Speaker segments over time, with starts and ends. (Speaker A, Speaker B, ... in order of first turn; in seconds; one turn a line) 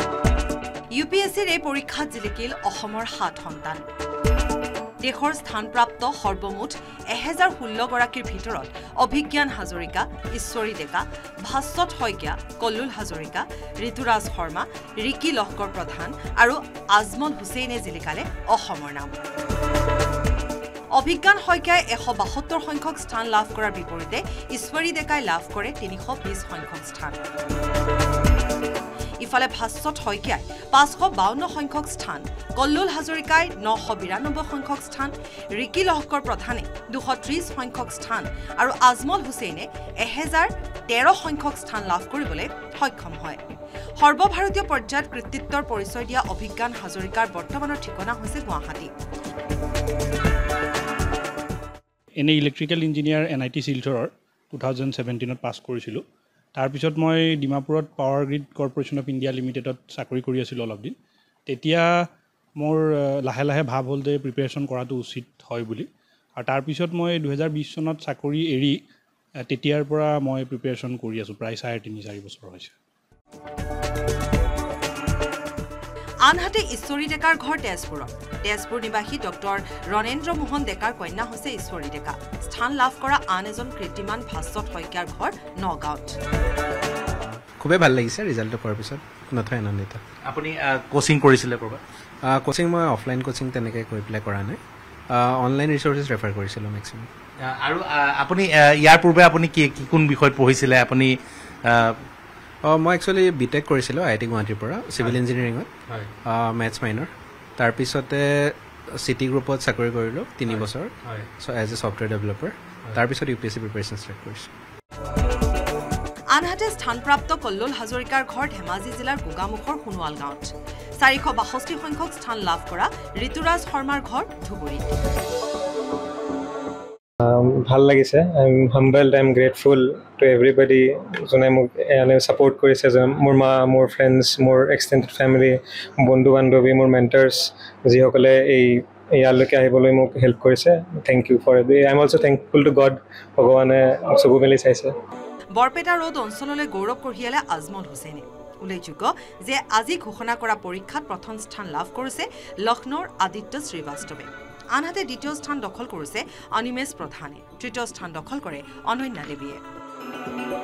Speaker A: 0.9-3.8
Speaker A: 5.0-19.2
Speaker A: 20.9-27.2
Speaker A: 29.2-43.4
Speaker A: 44.0-48.9
Speaker B: 52.2-56.0
Speaker B: 56.5-60.9
Speaker B: 61.5-62.1
Speaker B: 62.6-68.8
Speaker B: 69.4-72.7
Speaker A: 76.2-86.2
Speaker C: 87.6-90.0
Speaker D: 90.2-91.8
Speaker C: 92.2-97.1
Speaker D: 97.4-102.1
Speaker C: 102.6-105.7
Speaker C: 106.2-114.5
Speaker A: 116.3-125.0
Speaker E: 127.2-144.9
Speaker A: 145.5-159.6